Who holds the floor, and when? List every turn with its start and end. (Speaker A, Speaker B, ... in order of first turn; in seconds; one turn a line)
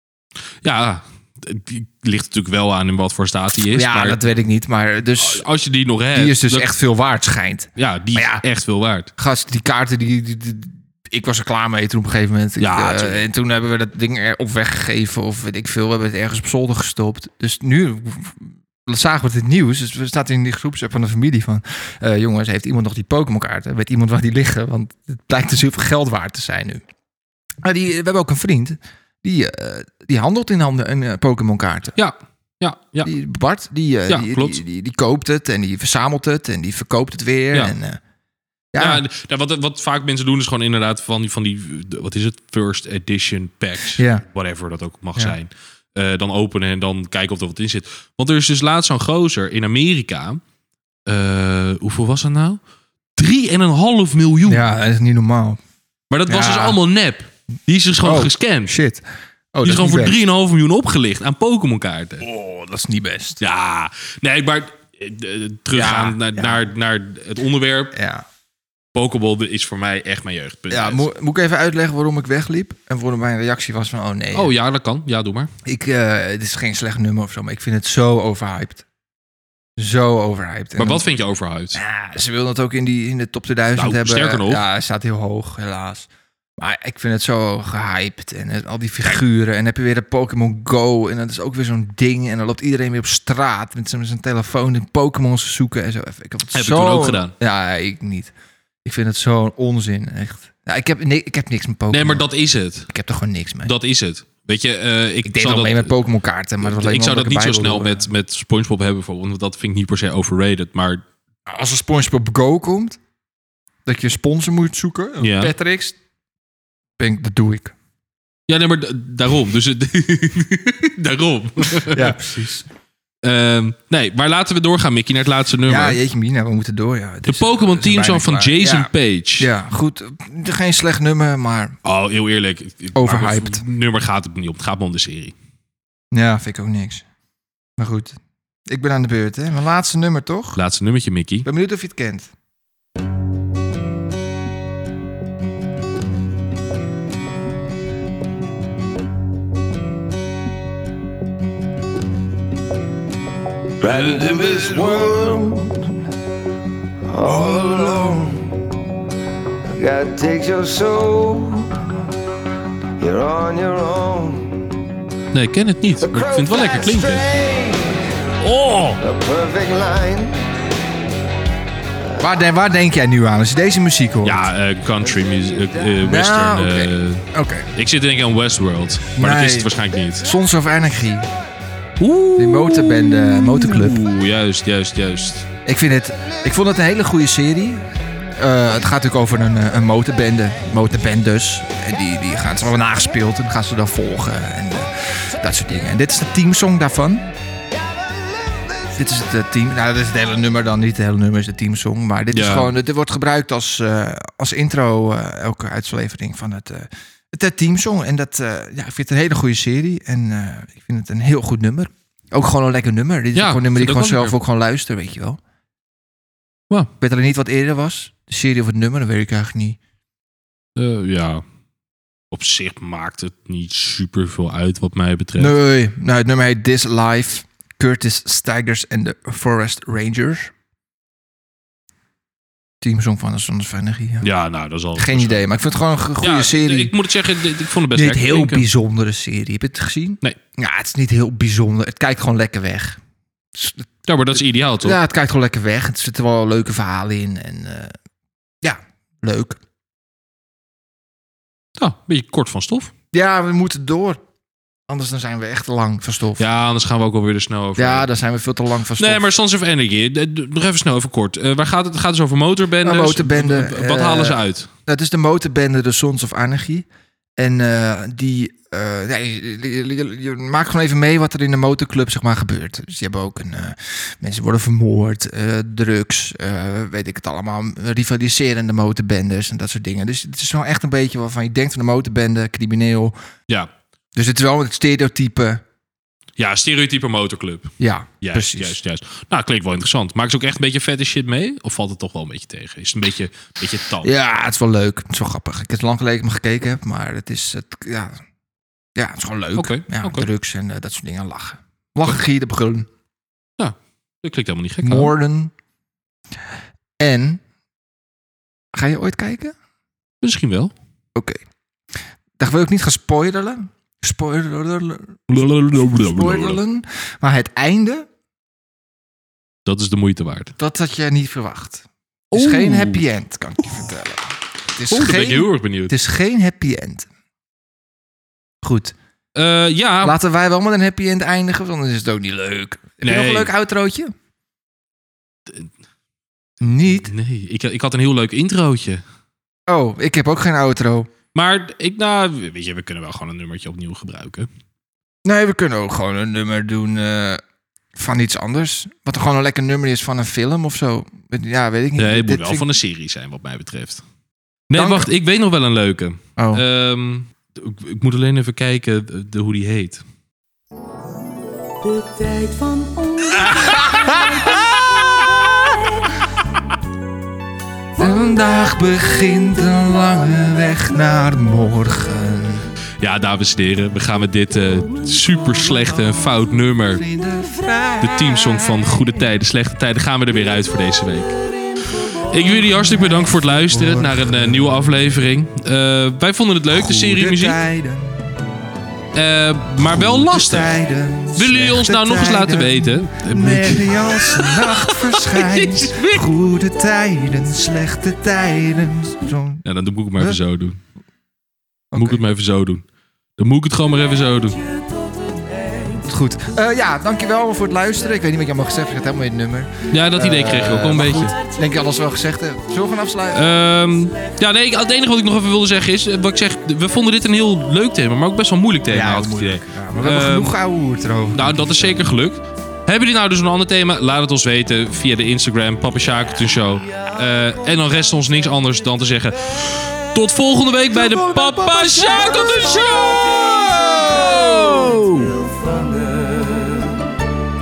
Speaker A: 0.6-4.2
Speaker B: 3.6-5.5
Speaker A: 5.2-6.7
Speaker B: 6.1-8.4
Speaker A: 7.8-9.1
Speaker B: 9.2-26.8
Speaker A: 12.6-13.3
Speaker B: 27.6-31.9
Speaker A: 32.0-33.1
Speaker B: 33.0-38.0
Speaker A: 34.1-34.6
Speaker B: 38.7-39.0
Speaker A: 38.8-50.4
Speaker B: 44.0-44.2
Speaker A: 51.1-52.6
Speaker A: 53.2-54.6
Speaker B: 54.5-55.6
Speaker A: 56.1-58.7
Speaker B: 56.3-56.8
Speaker B: 58.0-60.2
Speaker A: 59.6-62.3
Speaker B: 62.2-63.4
Speaker A: 63.4-68.0
Speaker B: 65.7-66.7
Speaker B: 67.9-68.2
Speaker A: 68.9-71.1
Speaker B: 70.7-74.5
Speaker A: 74.3-75.5
Speaker B: 75.7-78.8
Speaker B: 79.8-81.1
Speaker A: 80.8-81.8
Speaker B: 81.7-98.3
Speaker A: 83.8-84.6
Speaker A: 96.5-97.3
Speaker B: 98.8-102.3
Speaker A: 101.9-102.9
Speaker B: 102.9-103.7
Speaker A: 103.6-106.0
Speaker B: 105.2-108.1
Speaker A: 106.6-111.0
Speaker B: 111.5-113.0
Speaker B: 113.9-116.0
Speaker A: 115.2-115.5
Speaker B: 117.0-117.7
Speaker A: 118.5-122.3
Speaker B: 121.8-122.7
Speaker A: 123.2-126.0
Speaker B: 125.7-131.8
Speaker A: 127.3-129.5
Speaker A: 131.8-135.4
Speaker B: 133.0-133.6
Speaker B: 136.1-137.1
Speaker B: 137.8-140.6
Speaker A: 140.6-141.5
Speaker B: 141.4-142.3
Speaker C: 153.8-155.9
Speaker B: 154.0-155.1
Speaker C: 157.1-158.7
Speaker C: 159.7-161.9
Speaker C: 163.0-164.8
Speaker A: 165.3-167.3
Speaker C: 166.0-168.1
Speaker A: 168.4-169.0
Speaker C: 169.0-170.5
Speaker B: 172.2-174.5
Speaker A: 174.2-180.3
Speaker C: 175.1-175.9
Speaker B: 176.0-177.7
Speaker B: 179.2-181.3
Speaker A: 182.0-185.5
Speaker B: 182.4-184.0
Speaker B: 185.7-197.3
Speaker B: 198.9-215.4
Speaker A: 202.3-202.7
Speaker A: 213.3-214.4
Speaker B: 217.0-219.8
Speaker A: 220.8-221.4
Speaker A: 222.3-225.6
Speaker B: 225.4-230.5
Speaker B: 232.8-234.3
Speaker A: 234.2-235.4
Speaker B: 235.0-236.9
Speaker A: 236.2-238.7
Speaker B: 237.9-243.0
Speaker B: 243.6-243.9
Speaker A: 244.1-245.0
Speaker B: 244.8-248.0
Speaker B: 248.6-249.6
Speaker A: 251.8-252.9
Speaker B: 253.1-254.2
Speaker B: 254.9-256.5
Speaker A: 256.4-258.1
Speaker B: 257.8-259.3
Speaker A: 259.0-264.7
Speaker B: 262.8-283.1
Speaker B: 284.1-285.6
Speaker A: 286.4-294.1
Speaker B: 287.8-288.8
Speaker B: 294.0-298.2
Speaker B: 299.0-302.9
Speaker A: 299.6-300.3
Speaker A: 303.6-305.1
Speaker B: 304.8-305.5
Speaker B: 307.0-307.4
Speaker B: 308.7-309.6
Speaker A: 310.2-310.7
Speaker B: 311.1-311.4
Speaker B: 312.4-318.1
Speaker A: 315.3-316.6
Speaker A: 319.7-320.6
Speaker B: 320.6-327.1
Speaker A: 322.3-323.0
Speaker A: 324.9-326.0
Speaker B: 328.6-328.9
Speaker A: 329.4-330.2
Speaker B: 330.0-334.1
Speaker A: 333.0-333.5
Speaker B: 336.6-337.1
Speaker A: 336.8-339.0
Speaker B: 339.7-341.1
Speaker A: 341.4-344.5
Speaker B: 345.2-347.4
Speaker B: 347.9-352.7
Speaker A: 352.0-354.0
Speaker A: 354.7-360.0
Speaker B: 354.7-355.1
Speaker B: 356.4-356.6
Speaker B: 363.4-364.7
Speaker B: 368.0-372.7
Speaker A: 373.0-377.1
Speaker B: 376.9-378.9
Speaker A: 378.0-381.4
Speaker A: 382.3-387.6
Speaker B: 382.4-385.0
Speaker B: 386.7-388.3
Speaker A: 389.1-390.7
Speaker B: 389.8-399.6
Speaker A: 391.4-396.2
Speaker A: 399.6-400.8
Speaker B: 401.9-402.2
Speaker A: 401.9-402.9
Speaker A: 403.4-404.6
Speaker B: 406.0-413.5
Speaker A: 409.9-411.4
Speaker A: 413.3-420.6
Speaker B: 418.9-422.1
Speaker A: 421.3-435.1
Speaker B: 430.9-435.2
Speaker C: 435.5-436.7